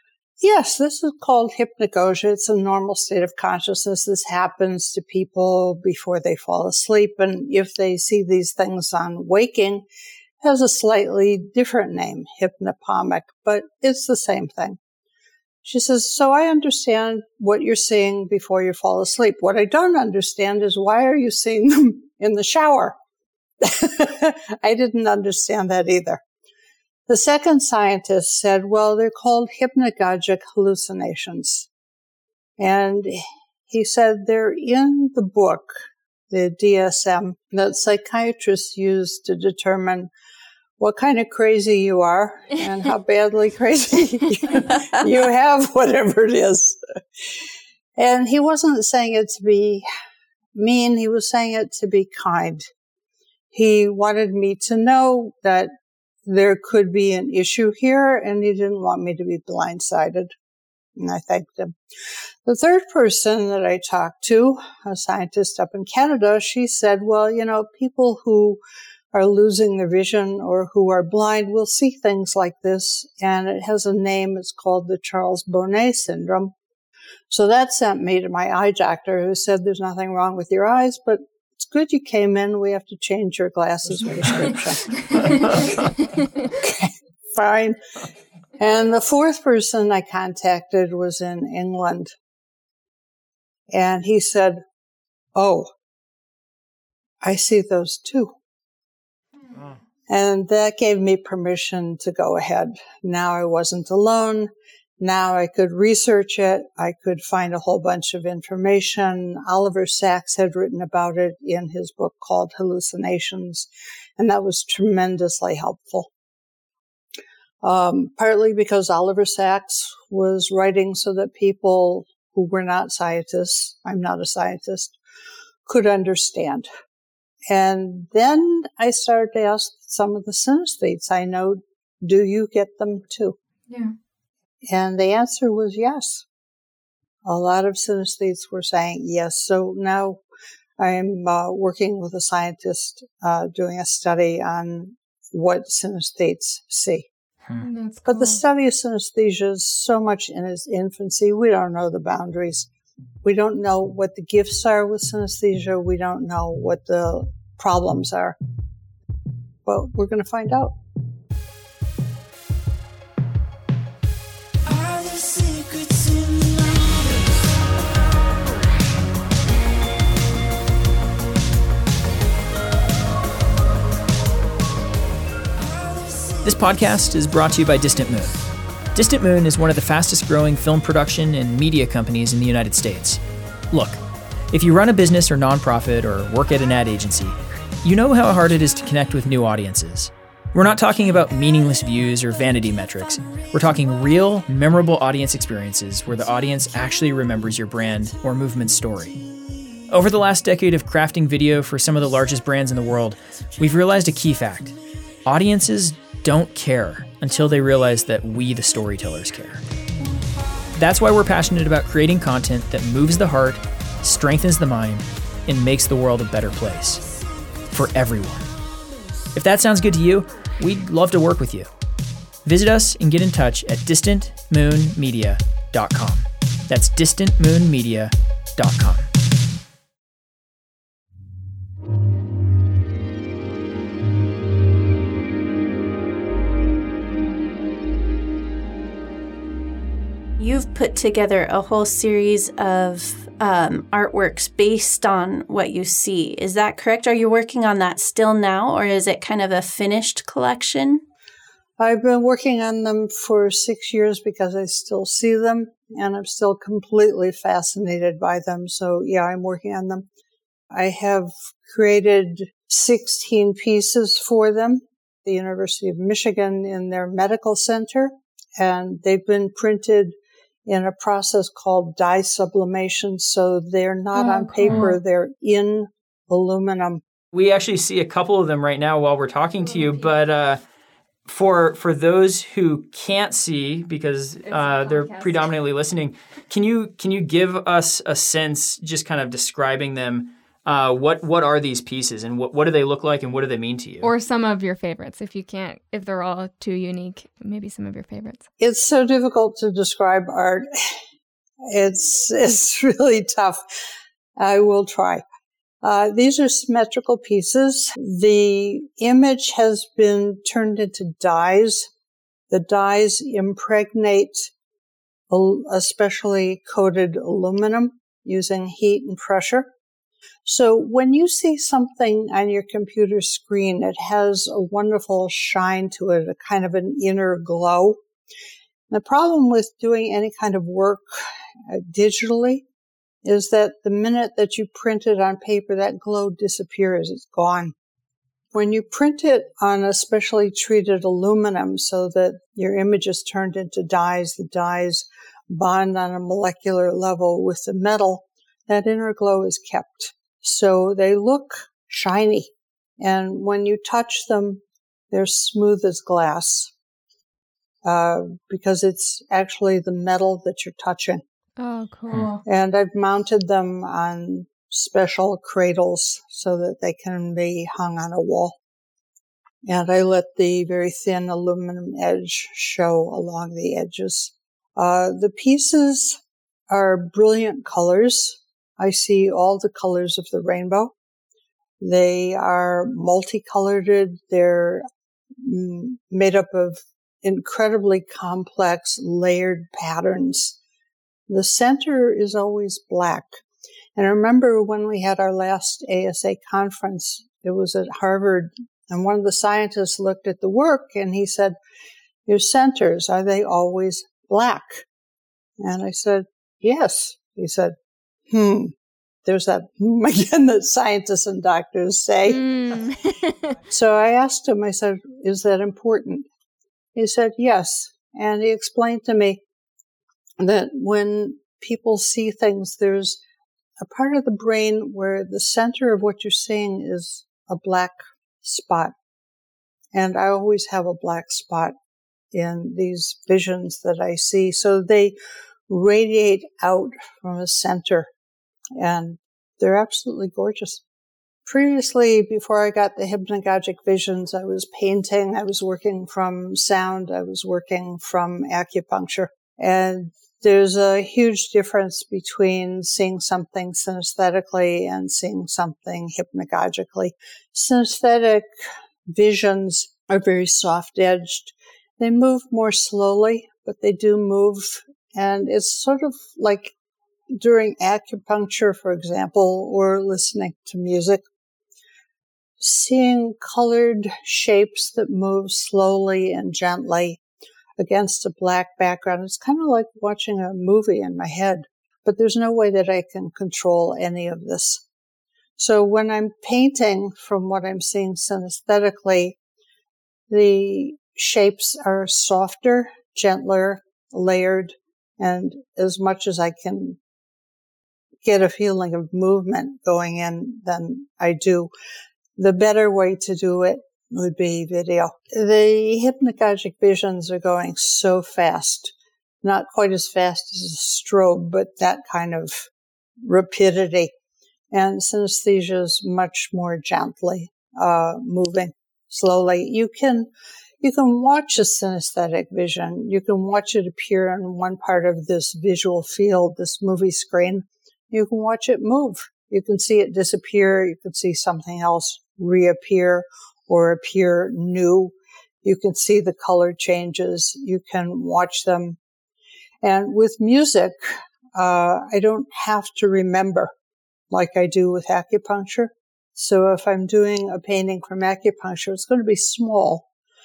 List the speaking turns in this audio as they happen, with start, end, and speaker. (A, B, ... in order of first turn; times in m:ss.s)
0:00.4-0:09.8 A
0:10.4-0:14.8 A
0:15.6-0:23.0 A
0:23.6-0:26.2 A
0:27.1-0:31.7 A
0:32.6-0:40.1 A
0:40.8-0:46.8 A
0:48.0-0:49.8 A
0:50.5-0:52.6 A
0:53.5-0:55.7 A
0:56.2-1:00.3 A
1:01.0-1:01.8 A
1:02.4-1:08.6 A
1:09.1-1:16.5 A
1:17.3-1:25.6 A
1:25.2-1:25.5 B
1:26.5-1:27.8 A
1:28.6-1:32.1 A
1:33.7-1:34.6 A
1:35.3-1:35.7 A
1:37.2-1:38.3 A
1:40.1-1:56.1 A
1:57.6-2:05.0 A
2:05.6-2:06.7 A
2:07.5-2:13.4 A
2:13.7-2:13.9 B
2:14.7-2:16.2 A
2:17.2-2:20.2 A
2:20.8-2:27.1 A
2:27.6-2:28.4 B
2:28.0-2:32.7 A
2:33.2-2:38.4 A
2:39.6-2:40.7 A
2:56.4-3:19.2 C
3:19.9-3:29.6 C
3:30.7-3:37.0 C
3:37.7-3:38.5 C
3:39.3-3:41.7 C
3:42.4-3:49.1 C
4:00.4-4:11.0 D
4:11.8-4:20.1 A
4:20.7-4:30.1 A
4:30.6-4:37.0 A
4:34.1-4:35.0 B
4:37.3-4:40.6 C
4:39.6-4:40.1 B
4:41.2-4:54.1 C
4:44.4-4:45.5 B
4:54.0-4:58.4 B
4:58.6-5:01.0 A
5:01.6-5:03.6 A
5:04.4-5:05.2 A
5:05.8-5:11.9 A
5:12.5-5:14.5 A
5:15.3-5:19.7 A
5:20.4-5:28.0 A
5:28.9-5:32.6 A
5:33.2-5:37.7 A
5:38.5-5:56.7 A
5:57.8-6:01.2 A
6:01.6-6:02.4 B
6:02.4-6:08.6 A
6:09.6-6:20.9 A
6:21.8-6:24.8 A
6:25.4-6:30.6 A
6:31.3-6:33.4 A
6:34.0-6:41.5 A
6:42.3-6:44.8 A
6:45.6-6:47.7 A
6:48.3-6:48.7 A
6:49.2-6:52.4 A
6:52.3-6:53.5 B
6:53.7-6:56.3 A
6:56.9-6:59.4 A
7:00.4-7:03.2 A
7:03.8-7:08.9 A
7:09.9-7:11.7 A
7:12.3-7:15.1 A
7:15.7-7:18.1 A
7:18.8-7:20.8 A
7:21.4-7:38.4 A
7:39.1-7:46.7 A
7:47.3-7:51.2 A
7:52.6-7:57.2 A
7:57.8-8:04.8 A
8:05.6-8:09.4 A
8:10.3-8:17.0 A
8:18.2-8:21.7 A
8:22.4-8:32.7 A
8:33.2-8:34.1 A
8:34.7-8:40.3 A
8:40.8-8:59.0 A
8:59.8-9:03.7 A
9:04.3-9:10.0 A